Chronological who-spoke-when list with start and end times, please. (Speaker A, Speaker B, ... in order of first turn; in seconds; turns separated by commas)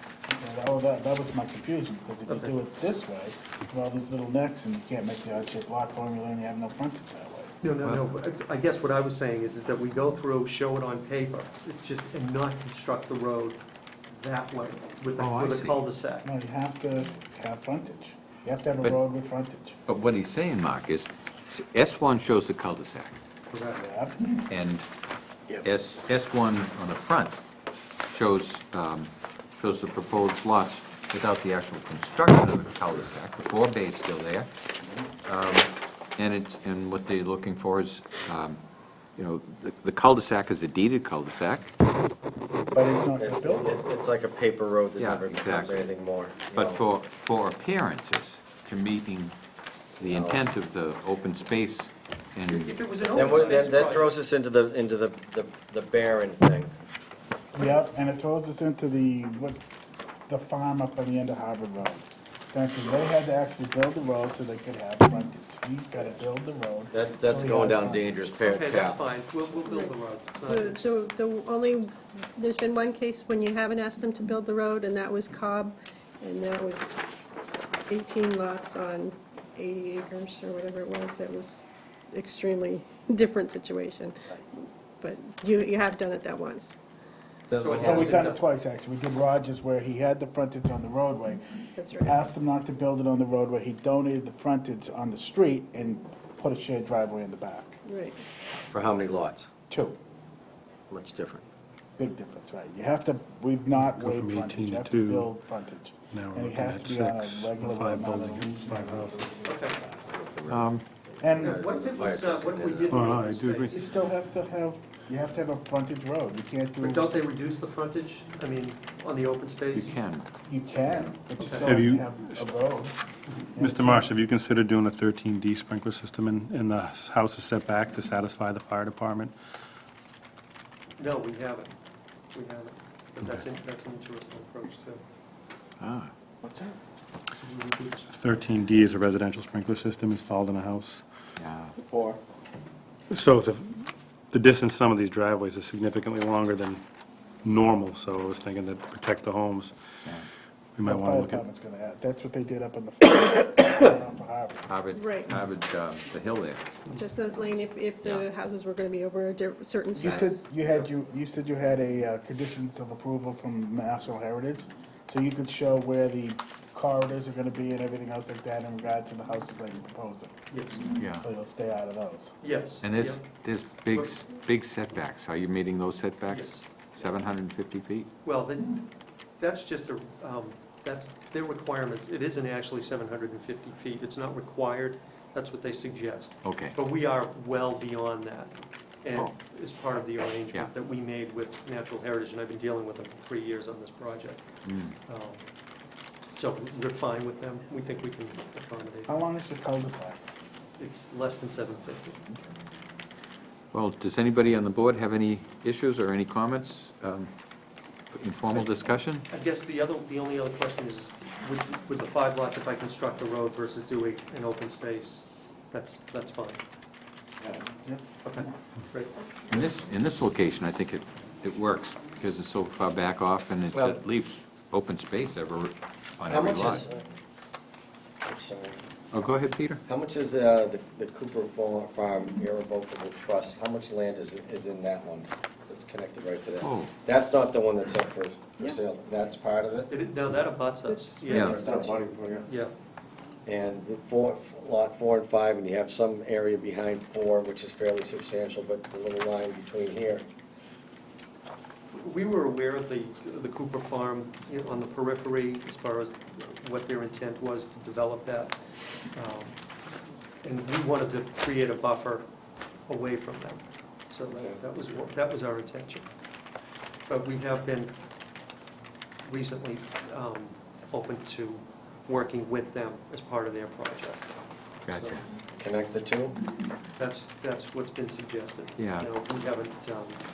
Speaker A: 0.3-7.5, Speaker B: 2.3-2.5, Speaker B: 7.6-16.2, Speaker C: 7.8-8.1, Speaker C: 15.2-15.8, Speaker A: 16.2-19.8, Speaker C: 19.9-23.1, Speaker B: 23.5-23.8, Speaker A: 23.8-24.5, Speaker C: 24.5-24.9, Speaker C: 25.6-27.4, Speaker C: 28.1-34.5, Speaker C: 35.2-38.6, Speaker C: 39.1-41.7, Speaker A: 42.7-43.8, Speaker D: 42.8-46.8, Speaker C: 45.0-45.9, Speaker C: 46.5-49.4, Speaker D: 50.0-50.5, Speaker C: 50.0-53.1, Speaker B: 52.5-54.2, Speaker D: 53.1-56.7, Speaker A: 57.5-59.6, Speaker A: 60.3-68.2, Speaker D: 66.9-69.0, Speaker B: 68.4-70.9, Speaker E: 69.6-69.9, Speaker E: 70.5-77.0, Speaker E: 77.9-84.2, Speaker E: 85.0-86.8, Speaker D: 87.5-88.2, Speaker B: 87.5-88.4, Speaker A: 87.8-97.8, Speaker E: 91.7-92.2, Speaker E: 97.8-98.2, Speaker D: 98.7-99.5, Speaker A: 99.7-100.0, Speaker D: 100.9-101.4, Speaker A: 102.0-110.0, Speaker F: 103.7-105.3, Speaker F: 106.1-109.3, Speaker B: 109.5-109.8, Speaker C: 110.1-110.8, Speaker A: 111.2-111.6, Speaker D: 111.4-113.1, Speaker B: 111.4-113.8, Speaker F: 112.9-113.8, Speaker A: 113.7-117.1, Speaker B: 116.8-120.1, Speaker C: 119.7-120.3, Speaker A: 120.4-124.1, Speaker B: 121.4-121.7, Speaker F: 121.6-122.5, Speaker F: 123.6-129.3, Speaker B: 131.0-131.7, Speaker B: 132.3-135.0, Speaker C: 135.8-136.1, Speaker A: 136.4-136.8, Speaker B: 137.3-138.2, Speaker F: 138.1-141.0, Speaker C: 141.4-141.7, Speaker F: 143.1-146.8, Speaker F: 147.4-149.8, Speaker F: 150.8-151.4, Speaker A: 150.8-154.7, Speaker C: 154.7-156.8, Speaker E: 154.9-155.4, Speaker E: 156.9-160.4, Speaker C: 158.0-158.3, Speaker A: 159.9-170.3, Speaker B: 170.5-170.9, Speaker A: 170.9-172.3, Speaker C: 171.0-171.2, Speaker B: 172.4-173.3, Speaker C: 172.8-178.1, Speaker B: 176.3-176.7, Speaker B: 178.2-178.8, Speaker B: 179.4-194.4, Speaker C: 186.4-186.8, Speaker C: 194.6-194.9, Speaker B: 195.1-195.4, Speaker B: 196.3-199.2, Speaker A: 199.1-200.2, Speaker B: 200.8-202.2, Speaker C: 203.7-207.3, Speaker C: 208.1-209.2, Speaker B: 208.5-208.8, Speaker B: 209.3-216.6, Speaker B: 218.2-219.2, Speaker C: 219.5-226.9, Speaker D: 223.7-224.0, Speaker D: 226.2-227.0, Speaker D: 228.2-228.8, Speaker C: 229.1-229.8, Speaker D: 229.8-239.9, Speaker C: 236.6-236.9, Speaker B: 239.9-241.7, Speaker E: 240.8-242.0, Speaker C: 241.3-241.7, Speaker D: 241.4-242.2, Speaker B: 242.4-242.7, Speaker D: 243.4-250.2, Speaker B: 251.9-258.5, Speaker B: 259.1-259.6, Speaker B: 260.4-262.2, Speaker B: 262.9-266.1, Speaker D: 264.3-264.6, Speaker B: 267.1-267.9, Speaker B: 269.2-274.3, Speaker C: 274.8-275.2, Speaker B: 274.9-275.2, Speaker D: 275.5-276.4, Speaker B: 277.0-280.2, Speaker C: 278.8-279.1